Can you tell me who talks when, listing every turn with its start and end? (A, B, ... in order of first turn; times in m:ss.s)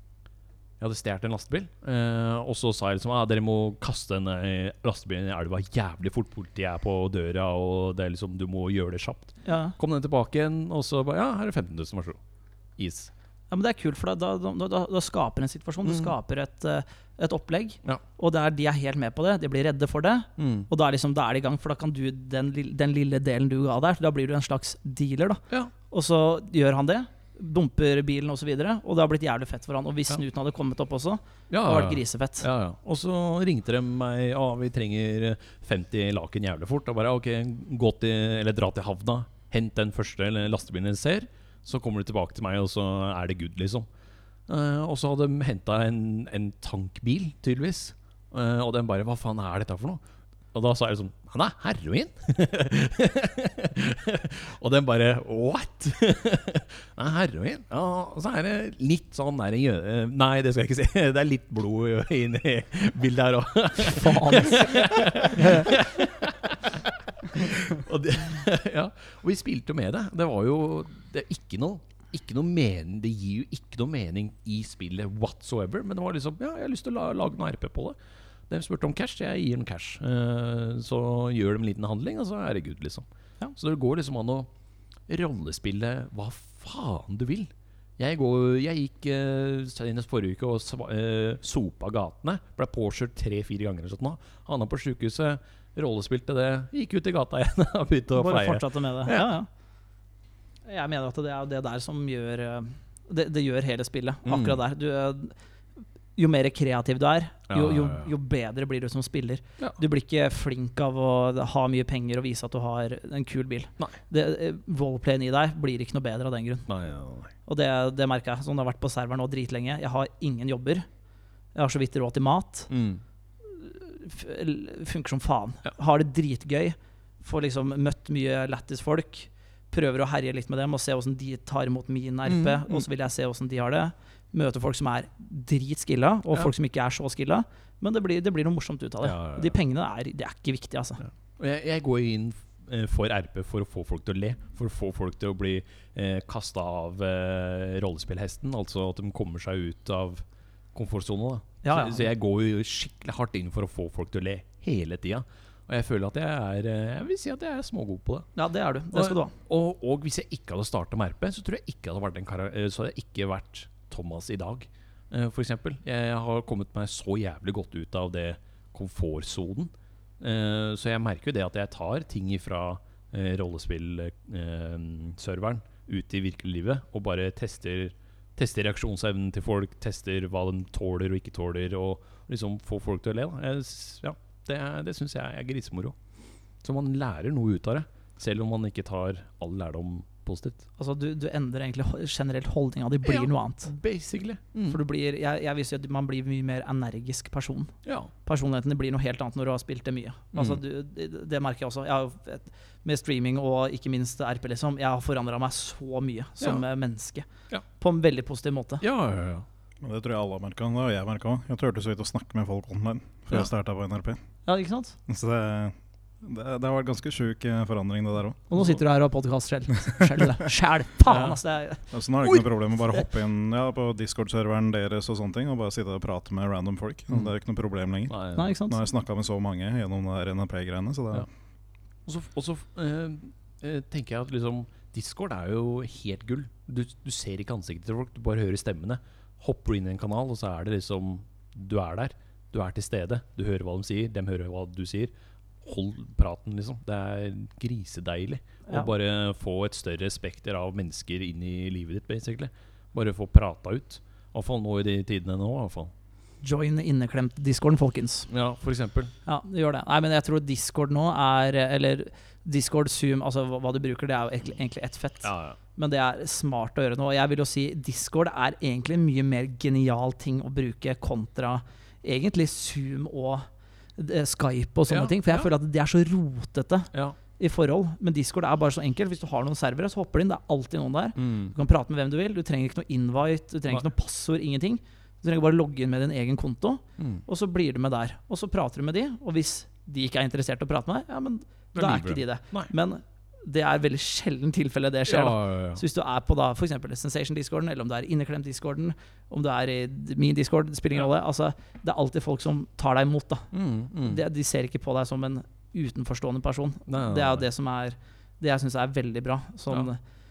0:00.8-0:12.2 A
0:09.4-0:09.8 B
0:12.8-0:13.1 A
0:13.5-0:32.5 B
0:15.8-0:16.1 A
0:20.4-0:20.7 A
0:31.5-0:43.9 A
0:44.5-0:50.0 A
0:50.5-1:18.0 A
1:03.9-1:05.7 B
1:18.5-1:24.5 A
1:25.1-1:39.3 A
1:38.2-1:39.5 B
1:40.7-1:45.4 B
1:44.2-1:44.6 A
1:46.2-1:56.7 B
1:47.5-1:48.1 A
1:56.7-1:57.3 A
1:57.5-2:00.9 B
2:01.6-2:02.7 B
2:02.7-2:03.0 A
2:03.4-2:21.0 B
2:12.3-2:12.8 A
2:19.0-2:19.6 A
2:21.0-2:30.2 A
2:30.7-2:38.3 A
2:31.6-2:32.1 B
2:38.4-2:39.3 B
2:38.9-3:06.0 A
3:06.6-3:10.6 A
3:10.8-3:13.7 B
3:13.0-3:14.8 A
3:14.7-3:17.7 B
3:17.8-3:18.1 A
3:18.3-3:27.3 B
3:20.4-3:20.6 A
3:27.8-3:28.8 B
3:28.8-3:29.5 A
3:29.8-3:34.2 C
3:34.5-3:35.0 B
3:35.1-3:38.4 C
3:38.5-3:41.8 B
3:41.1-3:41.4 A
3:41.9-3:51.3 C
3:48.1-3:48.5 A
3:48.4-3:48.8 B
3:52.1-4:05.1 A
4:05.6-4:15.9 A
4:16.4-4:18.3 B
4:18.3-4:19.1 A
4:19.3-4:33.5 B
4:25.2-4:25.6 A
4:34.0-5:03.5 B
4:34.9-4:35.5 A
4:41.2-4:41.5 A
4:47.0-4:47.2 A
4:51.8-4:52.7 A
4:55.1-4:55.8 A
5:03.5-5:04.2 A
5:04.0-5:10.0 B
5:06.9-5:07.4 A